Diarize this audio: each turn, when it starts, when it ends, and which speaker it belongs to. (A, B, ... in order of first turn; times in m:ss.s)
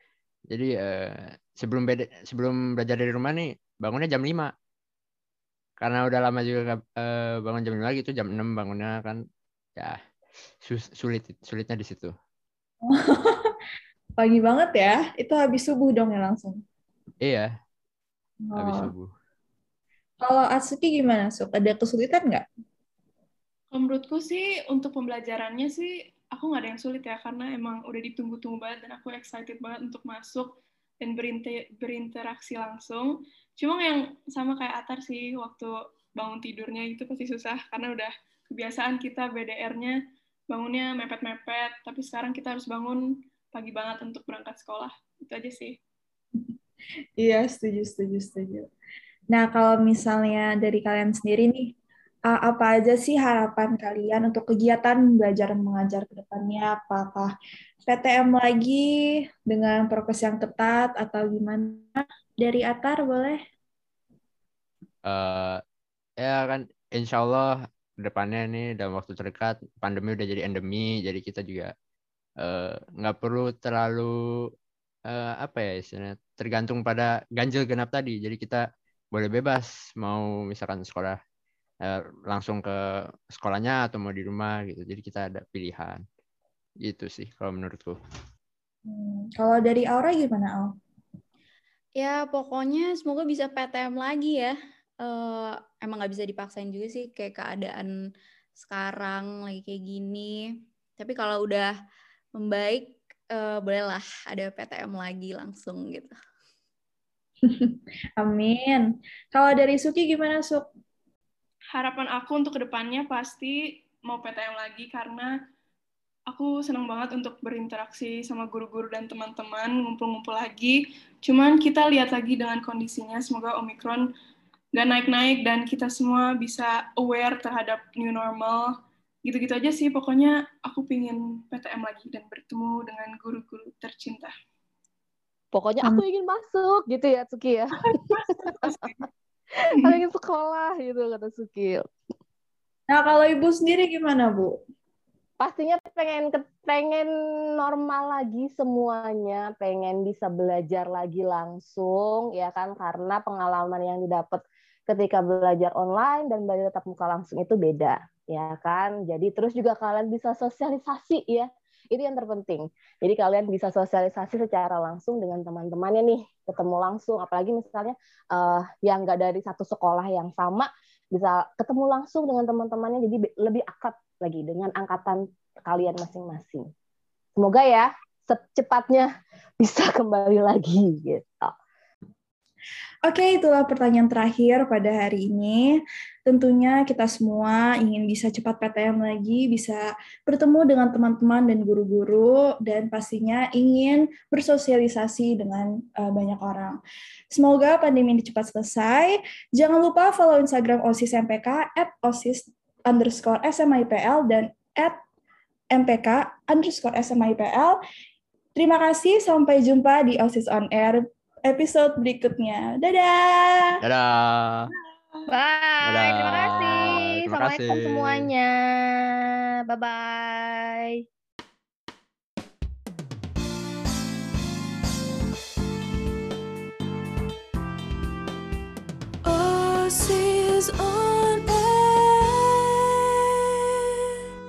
0:00.5-0:04.5 A
0:05.8-0:09.2 A
0:10.6-0:12.1 A
0:12.8-0:13.5 B
0:14.2-0:16.6 B
0:17.2-0:17.5 A
0:18.4-0:18.9 B
0:18.6-0:19.1 A
0:20.2-0:22.4 B
0:23.7-0:30.5 C
0:31.0-0:40.0 C
0:40.5-0:45.8 C
0:47.2-0:48.7 B
0:49.3-0:51.7 B
0:52.3-0:57.3 B
0:57.8-0:58.9 B
0:59.5-1:03.4 B
1:05.1-1:05.6 A
1:06.2-1:11.7 A
1:12.4-1:14.1 A
1:15.1-1:18.6 A
1:19.1-1:21.2 A
1:21.8-1:22.7 A
1:23.3-1:26.0 A
1:26.8-1:28.0 A
1:28.8-1:30.7 B
1:32.0-1:37.9 D
1:38.6-1:40.3 D
1:41.0-1:41.7 D
1:42.4-1:46.1 D
1:47.4-1:50.6 B
1:51.7-1:55.3 C
1:56.3-2:04.1 C
2:04.7-2:08.7 C
2:09.2-2:14.3 C
2:15.5-2:18.9 E
2:17.9-2:19.0 B
2:19.6-2:21.9 E
2:22.9-2:24.6 B
2:25.4-2:56.7 E
2:57.4-2:59.1 E
2:59.6-3:01.5 E
3:03.1-3:16.8 B
3:17.3-3:25.0 B
3:25.7-3:27.8 B
3:28.6-3:33.7 B
3:33.8-3:34.7 A
3:35.3-3:41.0 E
3:35.8-3:38.3 A
3:49.2-3:52.7 F